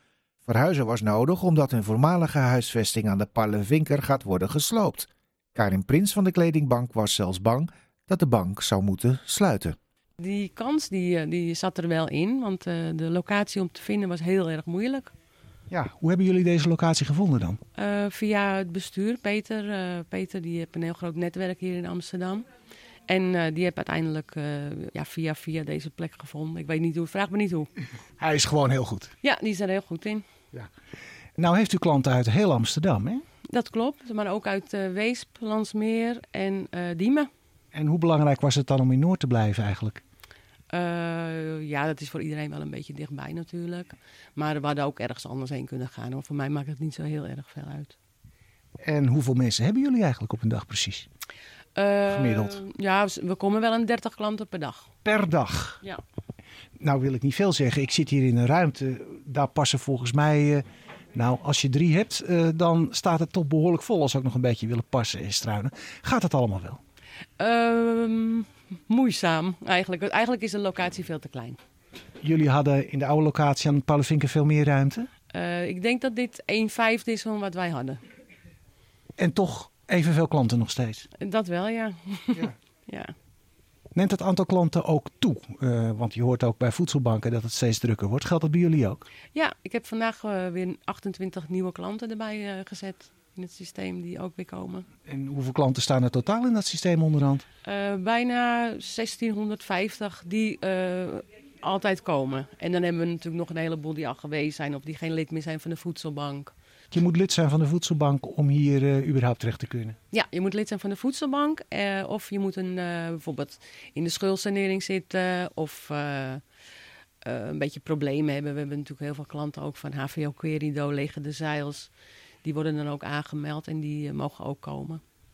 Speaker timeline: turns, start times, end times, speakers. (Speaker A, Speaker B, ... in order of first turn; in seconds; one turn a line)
Speaker A: 0.4-9.8
Speaker B: 10.2-15.1
Speaker C: 15.7-17.6
Speaker B: 17.8-22.4
Speaker B: 23.1-27.7
Speaker C: 28.2-29.1
Speaker B: 29.2-30.2
Speaker C: 31.4-33.2
Speaker B: 33.5-37.3
Speaker C: 37.7-40.0
Speaker B: 40.7-47.9
Speaker C: 48.8-51.1
Speaker B: 51.8-54.9
Speaker C: 52.1-52.6
Speaker C: 55.0-55.8
Speaker C: 56.8-60.6
Speaker C: 61.1-66.8
Speaker B: 67.4-71.6
Speaker C: 72.2-75.1
Speaker B: 75.3-78.0
Speaker C: 79.2-81.0
Speaker B: 81.2-83.1
Speaker C: 83.9-89.0
Speaker B: 89.3-94.9
Speaker C: 95.0-97.4
Speaker B: 97.6-106.5
Speaker C: 106.9-110.0
Speaker B: 110.1-116.4
Speaker B: 117.2-121.9
Speaker B: 122.4-125.0